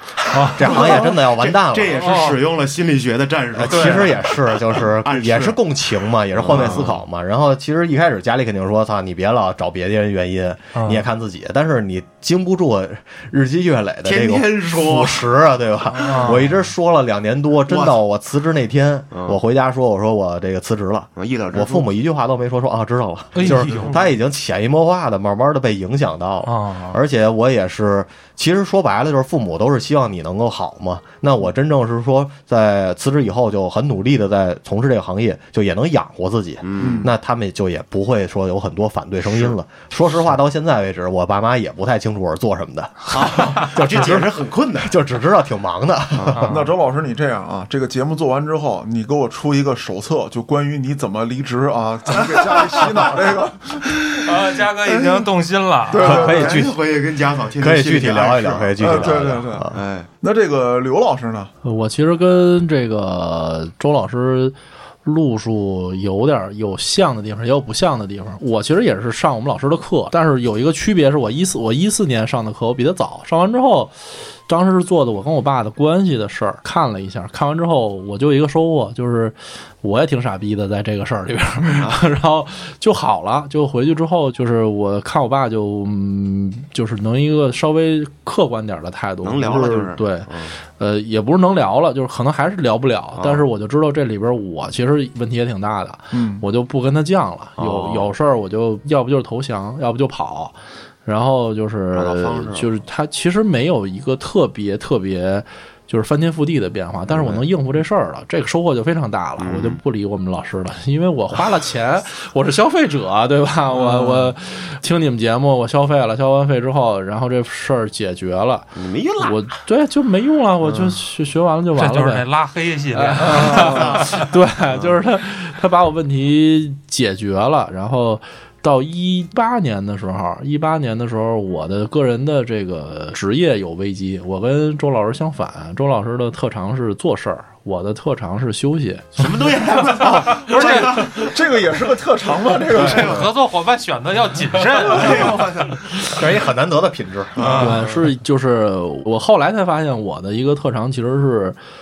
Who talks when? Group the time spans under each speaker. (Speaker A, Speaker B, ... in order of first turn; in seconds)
Speaker A: 0.3-5.6, 6.3-7.0, 14.0-15.3, 17.7-18.0, 19.1-19.4, 21.2-21.9, 36.6-37.1, 43.1-45.0, 46.1-46.5, 52.3-52.9, 54.9-55.2, 56.1-60.1, 89.2-90.6, 93.2-93.5, 97.6-98.1, 101.9-102.7, 107.1-107.5, 109.4-109.8, 118.8-119.4, 120.7-121.0, 123.3-124.2, 124.7-125.0, 139.2-141.4, 142.7-143.3, 144.7-146.0, 147.4-147.9
Speaker B: 0.3-0.6, 2.0-2.4, 3.7-4.1, 10.7-11.1, 16.0-16.6, 23.3-24.1, 26.4-27.0, 46.3-46.7, 54.1-56.4, 121.7-124.2, 140.0-141.0, 142.8-145.4, 147.4-147.8
Speaker C: 0.5-2.2, 3.5-46.5, 56.0-56.8, 57.6-59.8, 145.9-147.6
Speaker D: 36.8-37.1, 46.4-53.9, 55.9-56.6, 58.1-61.5, 96.1-96.5, 113.7-114.3, 140.2-143.3
Speaker E: 61.6-122.3, 122.9-140.0, 147.4-151.6